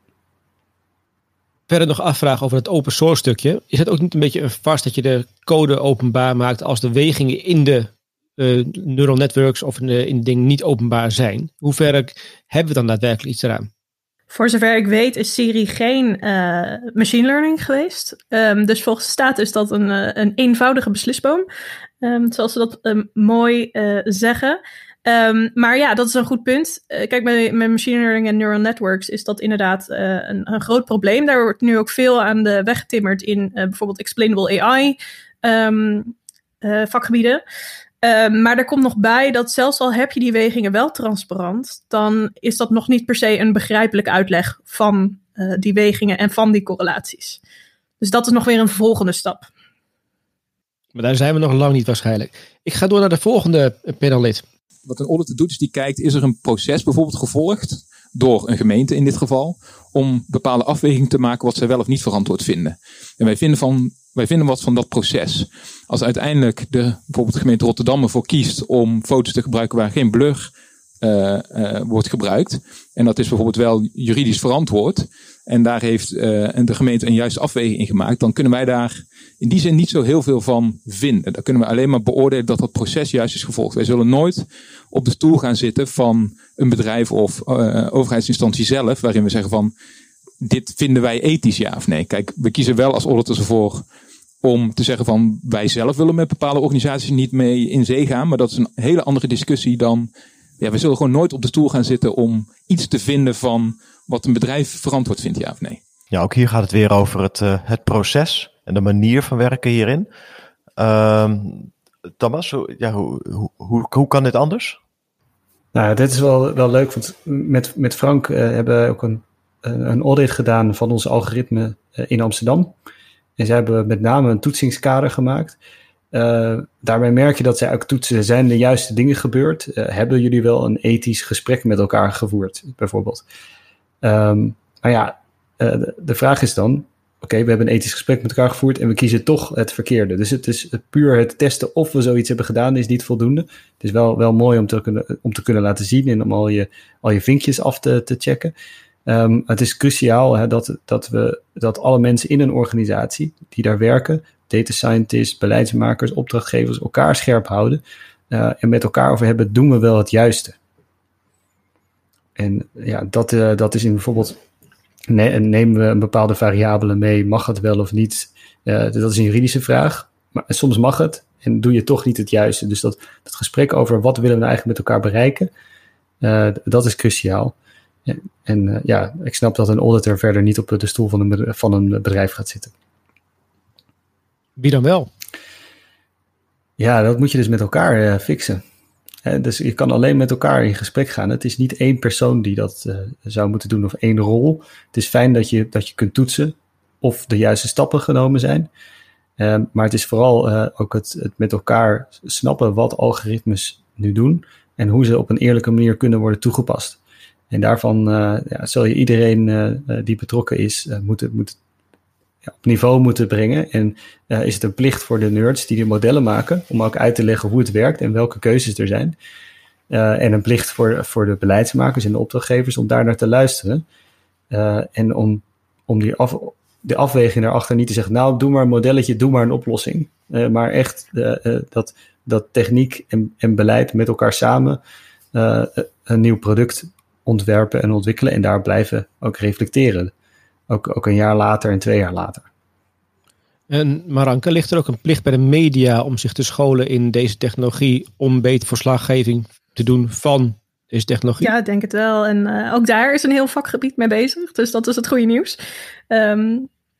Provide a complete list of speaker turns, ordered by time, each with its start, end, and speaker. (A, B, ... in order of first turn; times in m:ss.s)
0:01.7-0:13.7 A
0:14.3-0:21.4 B
0:22.0-0:37.4 B
0:38.0-0:47.4 B
0:48.0-0:49.5 B
0:50.9-0:54.4 A
0:54.8-1:29.7 C
1:30.4-1:33.9 C
1:34.4-1:45.8 C
1:46.1-1:50.1 D
1:50.8-1:54.8 D
1:55.7-2:02.7 E
2:03.4-2:05.6 E
2:06.1-2:13.2 E
2:14.0-2:28.5 E
2:29.0-2:40.6 E
2:42.4-2:44.4 E
2:45.1-2:55.5 E
2:56.2-2:57.5 E
2:58.1-3:02.7 E
3:04.6-3:05.1 A
3:06.8-3:08.6 E
3:09.2-3:18.7 E
3:19.4-3:27.0 E
3:27.5-3:31.6 E
3:32.6-3:39.2 E
3:39.9-3:43.8 E
3:44.5-3:54.8 E
3:55.3-4:00.1 E
4:00.7-4:02.4 E
4:03.7-4:11.5 A
4:11.4-4:15.6 B
4:16.1-4:16.7 B